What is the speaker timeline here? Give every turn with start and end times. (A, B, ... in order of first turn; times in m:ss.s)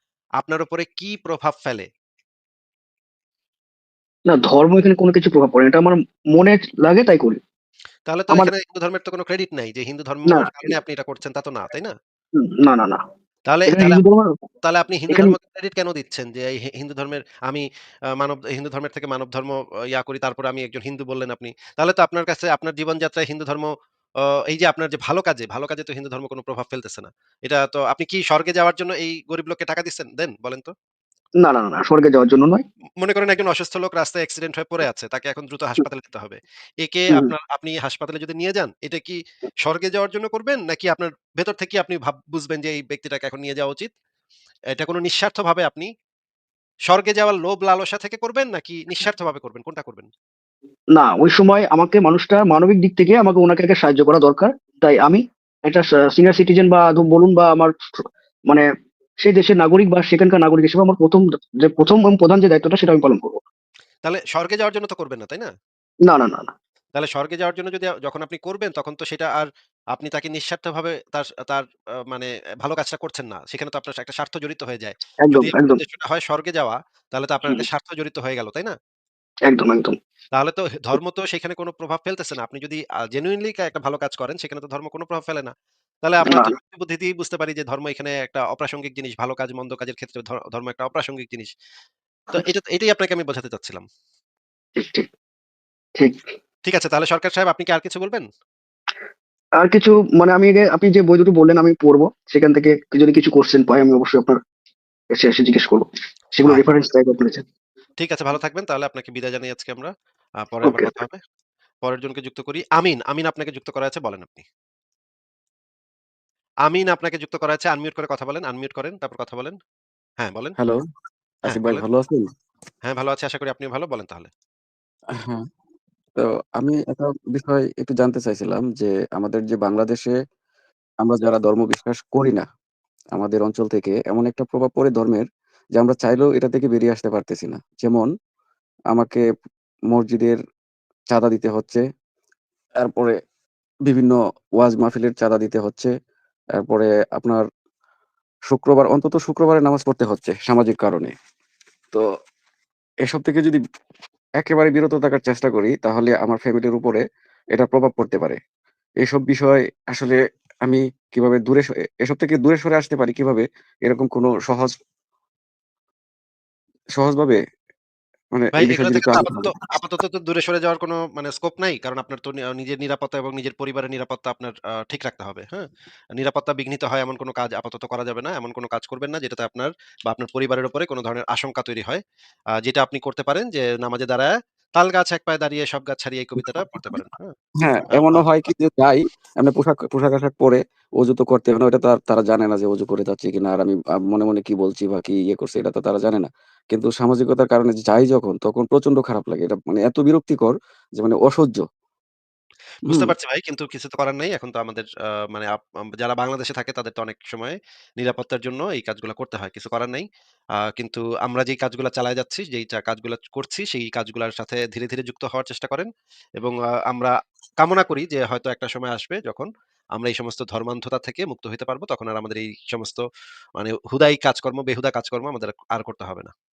0:00.4-0:01.9 A
0:04.3-0:07.4 B
0:08.1-0:11.9 A
0:10.2-0:10.7 B
0:12.4-0:13.0 B
0:13.5-0:14.0 A
0:13.7-0:14.3 B
0:14.6-0:17.6 A
0:15.1-0:15.4 B
0:18.2-0:23.7 A
0:24.5-0:30.7 A
0:31.4-0:32.6 B
0:33.0-0:43.9 A
0:44.7-0:45.9 A
0:46.9-0:50.1 A
0:50.9-0:57.7 B
0:59.2-1:03.4 B
1:04.0-1:05.5 A
1:06.0-1:06.5 B
1:06.9-1:18.7 A
1:15.2-1:15.8 B
1:19.5-1:20.0 B
1:20.3-1:25.5 A
1:26.0-1:31.5 A
1:26.3-1:26.5 B
1:32.3-1:33.8 A
1:34.8-1:35.1 B
1:36.6-1:38.2 A
1:39.6-1:44.4 B
1:45.1-1:47.4 B
1:48.0-1:49.9 A
1:50.4-1:51.2 A
1:50.6-1:51.0 B
1:51.8-1:54.4 A
1:56.7-1:59.6 A
2:00.2-2:00.6 A
2:01.4-2:02.3 C
2:01.5-2:01.8 A
2:02.9-2:04.3 A
2:05.1-2:05.4 C
2:06.2-2:10.1 C
2:11.0-2:12.4 C
2:13.1-2:15.2 C
2:15.8-2:18.1 C
2:18.9-2:19.2 C
2:19.9-2:20.4 C
2:21.1-2:21.8 C
2:22.8-2:23.1 C
2:23.9-2:25.9 C
2:26.6-2:27.4 C
2:28.5-2:31.1 C
2:33.0-2:33.6 C
2:34.4-2:37.0 C
2:37.5-2:38.4 C
2:39.0-2:44.7 C
2:47.0-2:47.4 C
2:48.3-2:49.5 C
2:48.6-3:02.0 A
3:02.6-3:07.3 A
3:06.4-3:07.0 C
3:07.6-3:21.6 C
3:07.9-3:08.2 A
3:22.8-3:30.0 A
3:22.9-3:23.1 C
3:30.8-3:35.9 A
3:36.4-3:43.0 A
3:43.6-3:46.3 A